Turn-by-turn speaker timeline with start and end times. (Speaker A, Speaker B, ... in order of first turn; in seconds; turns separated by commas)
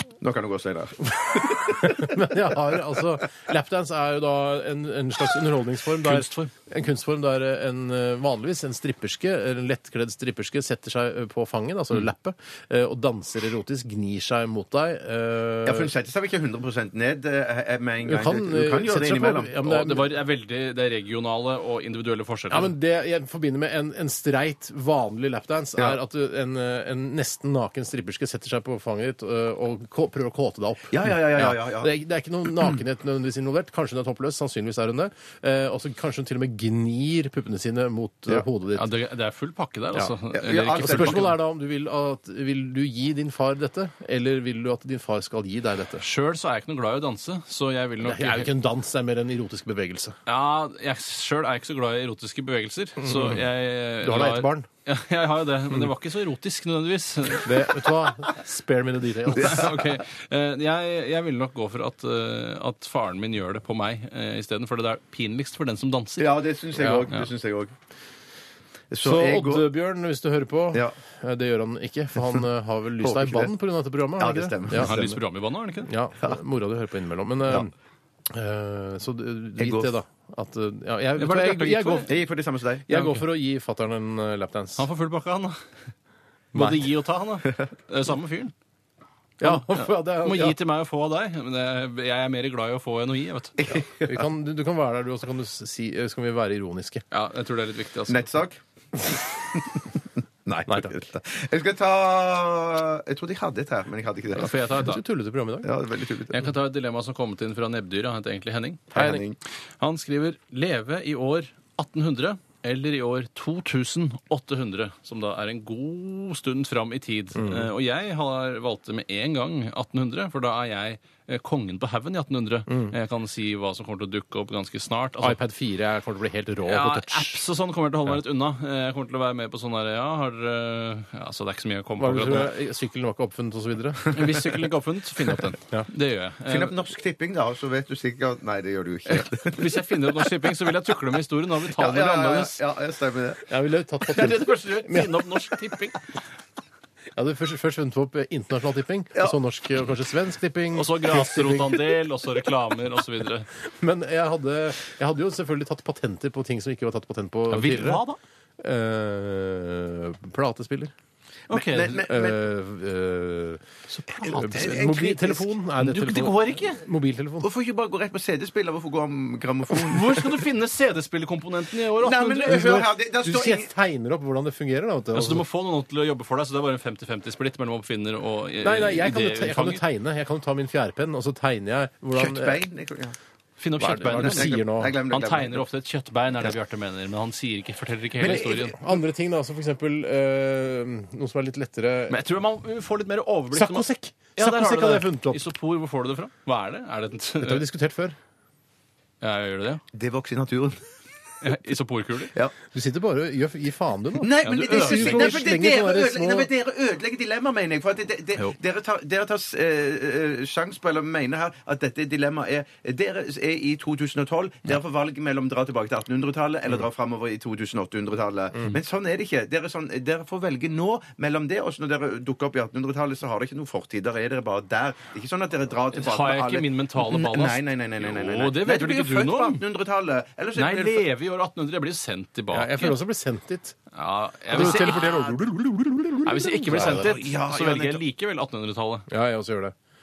Speaker A: 0.2-2.4, Speaker B: 1.7-15.9, Speaker C: 6.0-6.5, Speaker A: 15.6-19.8, Speaker B: 18.0-20.1, Speaker C: 19.6-22.7, Speaker B: 22.5-38.9, Speaker A: 30.9-31.9, Speaker C: 38.7-41.3, Speaker A: 40.3-41.3, Speaker B: 40.7-46.1, Speaker C: 46.0-48.5, Speaker B: 48.0-50.2, Speaker C: 50.2-57.5, Speaker B: 53.0-53.4, Speaker B: 54.0-54.7, Speaker B: 57.4-59.7, Speaker C: 59.3-66.4, Speaker A: 66.2-67.7, Speaker B: 66.8-67.1, Speaker A: 68.9-69.7, Speaker B: 69.0-75.0, Speaker A: 70.7-71.0, Speaker A: 73.0-73.5, Speaker A: 74.2-75.2, Speaker C: 74.7-75.9, Speaker B: 75.8-77.7, Speaker B: 78.3-82.1, Speaker A: 79.6-79.9, Speaker C: 81.2-82.1, Speaker A: 82.1-82.9, Speaker B: 82.9-84.8, Speaker C: 82.9-83.2, Speaker C: 84.8-85.6, Speaker C: 86.5-88.5, Speaker B: 86.5-86.8, Speaker B: 89.4-90.6, Speaker C: 89.4-93.6, Speaker A: 93.6-94.2, Speaker B: 94.0-97.0, Speaker C: 97.1-98.2, Speaker A: 98.1-98.6, Speaker A: 99.4-99.8, Speaker A: 100.5-104.5, Speaker B: 100.7-100.9, Speaker C: 104.3-105.0, Speaker B: 104.7-105.7, Speaker A: 105.6-106.5, Speaker C: 106.3-108.9, Speaker A: 108.9-109.4, Speaker B: 108.9-109.2, Speaker C: 109.8-125.4, Speaker B: 117.3-117.7, Speaker B: 125.2-127.4, Speaker C: 126.6-132.5, Speaker B: 132.0-134.4, Speaker C: 134.1-136.7, Speaker A: 136.5-139.8, Speaker C: 139.1-142.6, Speaker A: 141.7-143.5, Speaker B: 143.5-145.5, Speaker C: 144.1-146.0, Speaker B: 147.1-151.9, Speaker C: 150.7-153.5, Speaker B: 153.7-158.0, Speaker C: 157.5-158.2, Speaker B: 158.6-160.9, Speaker C: 161.5-162.1, Speaker A: 161.5-162.4, Speaker B: 162.0-163.6, Speaker C: 163.9-165.0, Speaker B: 164.2-167.5, Speaker A: 164.2-165.5, Speaker C: 165.8-166.8, Speaker A: 167.4-170.4, Speaker C: 169.8-172.6, Speaker A: 172.0-173.7, Speaker B: 172.4-175.4, Speaker C: 175.1-179.8, Speaker B: 178.6-182.6, Speaker A: 182.1-183.2, Speaker C: 183.6-188.8, Speaker B: 183.8-185.0, Speaker A: 183.9-185.7, Speaker A: 188.2-188.6, Speaker B: 188.2-192.2, Speaker C: 192.1-197.6, Speaker B: 193.5-195.4, Speaker B: 197.4-198.2, Speaker C: 199.2-199.8, Speaker A: 199.9-200.8, Speaker C: 201.4-202.3, Speaker B: 202.7-206.5, Speaker A: 204.2-231.1, Speaker C: 204.4-205.4, Speaker C: 225.9-229.6, Speaker C: 230.5-233.0, Speaker B: 232.5-233.8, Speaker C: 233.9-235.3, Speaker B: 234.5-237.2, Speaker A: 234.5-235.2, Speaker C: 236.2-239.1, Speaker A: 236.7-238.0, Speaker B: 239.1-239.7